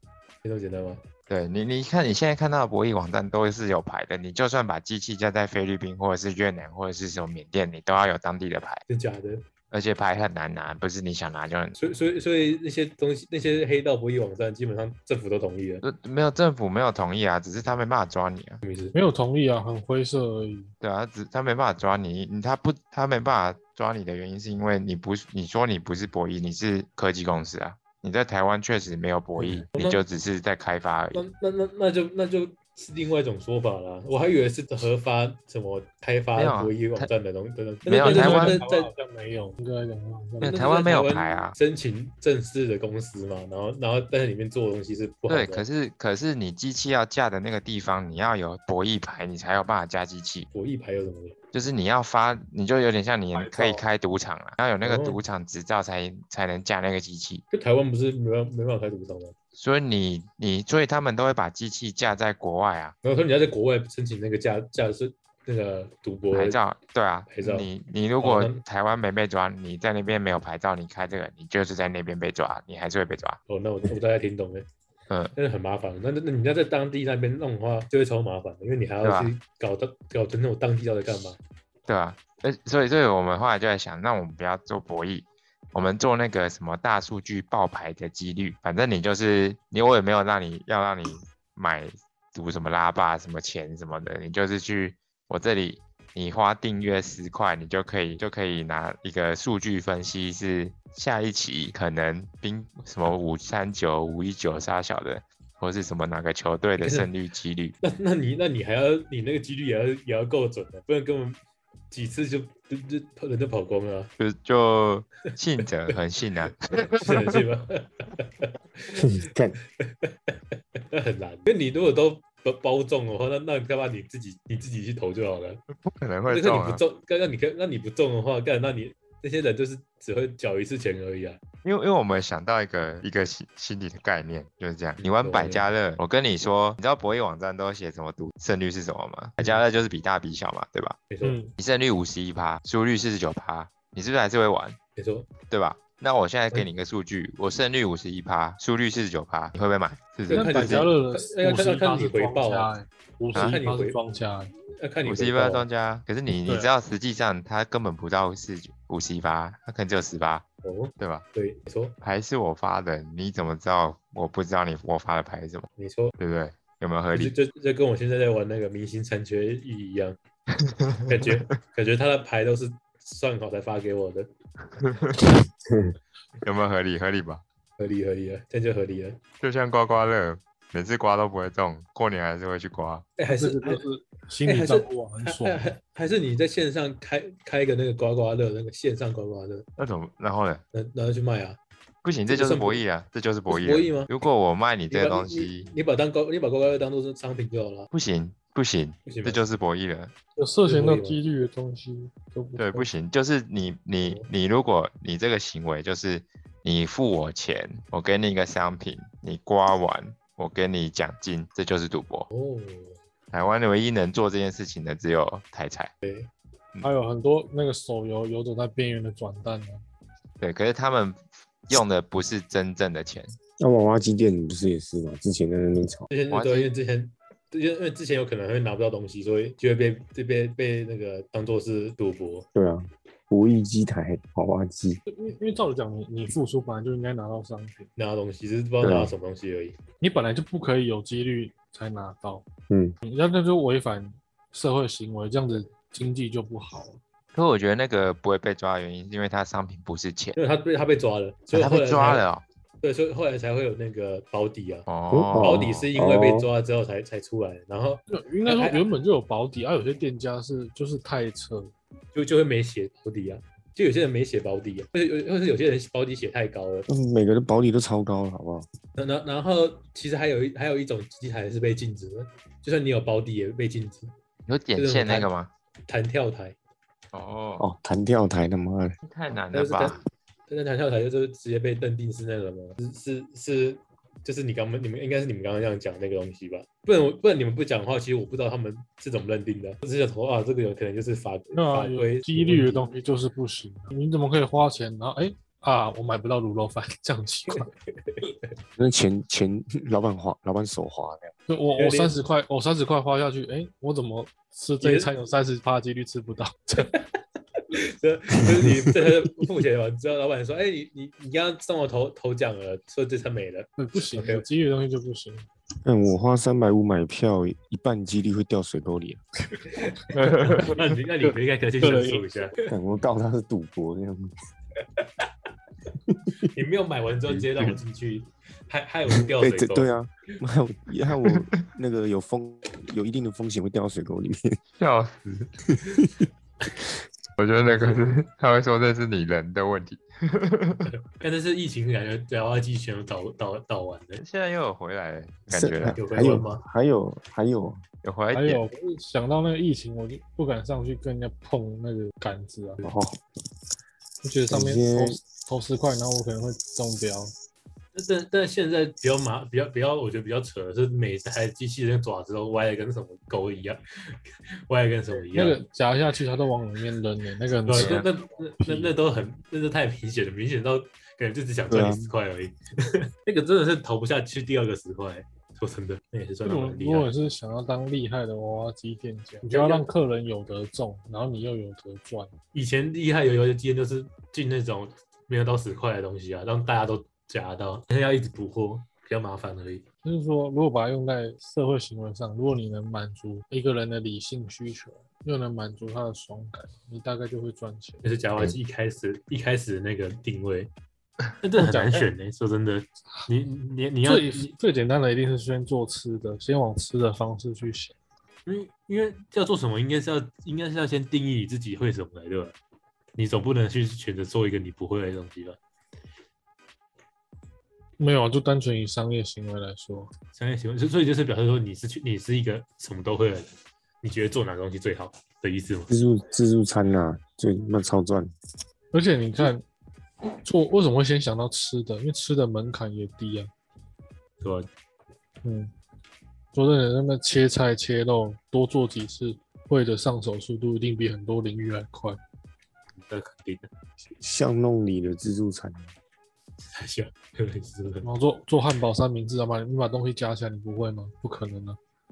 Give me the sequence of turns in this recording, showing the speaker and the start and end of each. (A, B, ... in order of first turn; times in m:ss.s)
0:00.4-0:01.0 A
0:01.3-0:08.8 B
0:08.9-0:09.4 A
0:09.7-0:11.8 B
0:11.8-0:15.8 A
0:15.8-0:18.6 B
0:18.6-0:18.9 A
0:18.9-0:20.7 C
0:20.8-0:31.2 B
0:29.4-0:30.0 A
0:31.1-0:38.9 A
0:36.4-0:37.1 B
0:37.9-0:38.6 B
0:38.0-0:40.6 C
0:40.4-0:41.6 B
0:40.5-0:45.6 A
0:45.3-0:50.5 B
0:50.5-0:51.4 A
0:51.5-0:57.4 B
0:53.4-0:53.8 C
0:54.8-0:55.2 A
0:57.5-0:59.4 A
0:59.6-1:03.0 B
1:03.0-1:06.6 A
1:06.3-1:13.4 B
1:07.3-1:07.7 A
1:08.2-1:08.6 A
1:13.5-1:14.7 A
1:15.4-1:21.4 A
1:19.0-1:19.3 B
1:21.9-1:47.7 B
1:46.8-1:47.1 A
1:47.8-1:51.4 A
1:51.9-1:54.1 A
1:54.2-1:57.4 B
1:56.9-1:59.1 A
1:58.9-1:59.6 D
1:59.8-2:00.1 A
2:00.9-2:05.6 A
2:05.8-2:06.8 B
2:06.3-2:11.4 A
2:11.6-2:21.0 B
2:15.0-2:15.7 A
2:21.1-2:21.4 A
2:21.2-2:21.5 C
2:21.6-2:24.8 B
2:25.0-2:25.3 A
2:25.5-2:30.9 B
2:30.3-2:32.7 A
2:30.3-2:34.5 C
2:33.3-2:33.6 B
2:33.4-2:34.0 A
2:34.8-2:35.7 A
2:35.0-2:40.4 B
2:40.6-2:42.0 A
2:41.0-2:41.2 B
2:42.0-2:45.7 B
2:45.8-2:46.1 A
2:46.2-2:47.4 B
2:47.1-2:50.2 A
2:50.6-2:51.5 B
2:51.1-2:54.3 A
2:54.8-2:55.4 B
2:56.4-2:57.4 B
2:57.8-2:59.2 A
2:59.4-3:03.1 B
3:03.2-3:03.8 A
3:03.3-3:05.7 C
3:04.4-3:09.7 A
3:09.8-3:10.6 B
3:10.7-3:11.6 A
3:12.0-3:15.7 B
3:12.3-3:12.8 A
3:13.5-3:14.1 A
3:14.9-3:17.9 A
3:17.9-3:20.1 B
3:19.1-3:19.4 A
3:20.4-3:22.9 C
3:20.7-3:21.2 A
3:22.6-3:32.3 B
3:24.0-3:24.3 A
3:32.3-3:33.0 A
3:33.3-3:35.9 B
3:36.0-3:36.3 A
3:36.8-3:39.8 C
3:40.4-3:43.4 B
3:43.6-3:46.1 D
3:46.1-3:52.5 A
3:46.3-3:46.7 B
3:52.5-3:55.0 D
3:55.1-3:57.9 C
3:58.0-3:59.8 A
3:58.8-3:59.1 D
4:00.0-4:02.4 C
4:02.7-4:03.0 D
4:03.0-4:07.0 C
4:07.3-4:10.4 B
4:10.4-4:12.2 A
4:11.5-4:12.4 B
4:12.8-4:18.8 A
4:14.9-4:15.9 B
4:15.1-4:16.5 D
4:18.1-4:21.7 C
4:22.1-4:26.9 A
4:26.9-4:28.7 D
4:29.0-4:34.1 A
4:34.5-4:35.5 B
4:34.8-4:35.3 A
4:35.9-4:36.6 A
4:37.1-4:37.6 B
4:37.6-4:39.0 D
4:39.0-4:40.0 B
4:39.5-4:52.8 A
4:51.5-4:57.7 C
4:58.0-4:58.3 A
4:58.8-5:01.3 D
5:01.5-5:06.9 C
5:01.8-5:02.1 A
5:04.8-5:05.1 A
5:07.7-5:14.4 A
5:13.8-5:15.5 C
5:15.8-5:19.2 D
5:19.9-5:22.6 A
5:20.1-5:20.7 C
5:20.2-5:20.8 B
5:21.8-5:22.3 C
5:22.7-5:24.3 D
5:26.1-5:26.5 D
5:26.5-5:29.9 A
5:27.4-5:27.7 B
5:29.2-5:34.6 D
5:34.8-5:35.5 B
5:35.7-5:36.2 D
5:37.4-5:40.9 B
5:37.6-5:38.0 A
5:40.9-5:44.2 A
5:44.2-5:46.0 B
5:45.5-5:47.8 D
5:46.0-5:46.6 A
5:48.0-5:48.6 B
5:48.3-5:52.9 C
5:52.8-5:53.2 D
5:54.2-5:57.3 C
5:54.5-5:55.2 D
5:58.0-6:04.2 A
6:04.7-6:05.6 A
6:05.3-6:08.1 C
6:07.7-6:17.1 A
6:07.7-6:08.1 B
6:08.6-6:08.9 C
6:11.7-6:12.1 D
6:16.4-6:22.3 C
6:19.4-6:19.9 A
6:22.5-6:29.8 A
6:30.0-6:38.1 C
6:38.0-6:40.7 A
6:41.4-6:44.5 A
6:41.6-6:42.1 C
6:44.0-6:48.0 C
6:48.5-6:52.6 A
6:53.2-6:55.6 A
6:58.0-7:00.1 C
7:00.4-7:05.9 A
7:05.9-7:08.3 D
7:08.9-7:09.6 C
7:10.4-7:13.5 C
7:14.4-7:14.7 A
7:15.4-7:15.7 C
7:16.5-7:22.2 C
7:23.0-7:23.7 A
7:24.2-7:25.9 D
7:26.7-7:28.1 A
7:28.0-7:31.8 C